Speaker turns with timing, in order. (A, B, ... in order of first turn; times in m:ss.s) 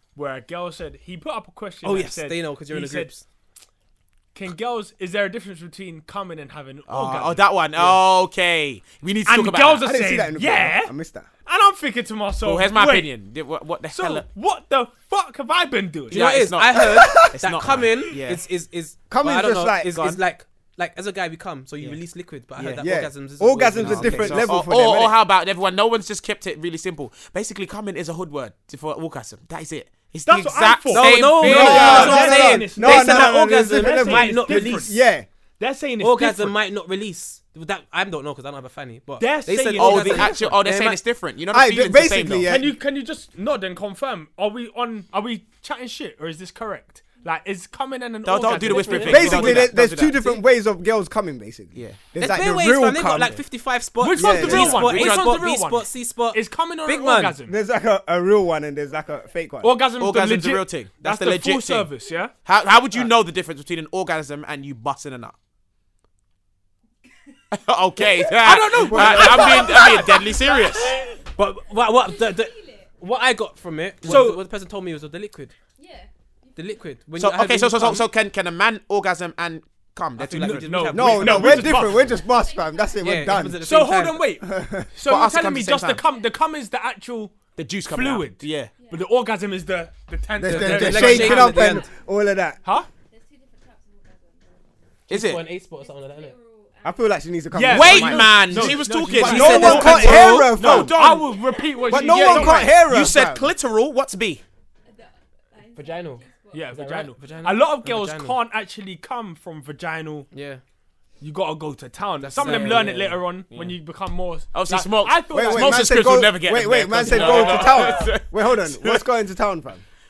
0:00.2-0:03.1 A
0:01.8-0:03.2 B
0:04.3-0:08.0 A
0:06.9-0:09.9 C
0:09.3-0:10.9 A
0:09.8-0:11.3 D
0:11.5-0:13.1 A
0:12.4-0:14.2 C
0:13.9-0:16.4 A
0:16.1-0:18.4 C
0:16.1-0:24.5 B
0:17.0-0:17.2 D
0:19.1-0:20.0 D
0:22.6-0:22.8 C
0:22.8-0:25.2 D
0:23.8-0:32.4 C
0:30.2-0:35.0 A
0:30.9-0:34.9 B
0:31.4-0:35.3 D
0:35.6-0:36.6 A
0:36.0-0:41.0 B
0:39.2-0:40.4 A
0:39.8-0:42.5 C
0:41.5-0:42.8 D
0:42.5-0:49.7 A
0:48.2-0:50.4 C
0:48.4-0:49.5 B
0:49.1-0:53.4 D
0:51.7-0:52.0 C
0:52.2-0:57.4 B
0:54.0-0:57.6 A
0:54.2-0:54.8 D
0:54.4-0:55.3 C
0:57.5-0:59.7 D
0:59.6-1:02.4 A
1:00.0-1:01.9 C
1:02.4-1:05.4 C
1:07.5-1:10.9 C
1:08.4-1:10.3 A
1:08.7-1:09.7 D
1:10.1-1:13.0 E
1:11.4-1:15.5 B
1:14.0-1:14.4 A
1:15.8-1:17.0 E
1:16.6-1:18.1 B
1:17.2-1:21.6 C
1:20.2-1:21.8 B
1:20.3-1:22.0 A
1:20.9-1:23.6 D
1:21.9-1:23.5 E
1:23.0-1:24.3 B
1:23.6-1:31.8 A
1:24.4-1:24.9 D
1:25.0-1:26.0 C
1:26.0-1:26.6 E
1:27.6-1:28.7 C
1:28.8-1:29.7 E
1:30.4-1:32.6 D
1:30.5-1:31.9 B
1:32.6-1:32.9 A
1:32.6-1:37.7 E
1:35.1-1:35.4 C
1:35.1-1:36.4 B
1:36.8-1:41.0 D
1:37.5-1:42.8 A
1:37.7-1:41.4 C
1:39.1-1:40.6 B
1:41.2-1:42.2 E
1:41.9-1:43.5 D
1:41.9-1:44.4 C
1:44.8-1:47.6 E
1:45.8-1:48.4 B
1:46.5-1:50.3 A
1:50.3-1:50.6 B
1:51.2-1:56.2 A
1:52.2-1:53.2 B
1:52.4-1:53.8 C
1:54.5-1:59.0 C
1:55.3-1:59.8 D
1:57.1-1:57.7 A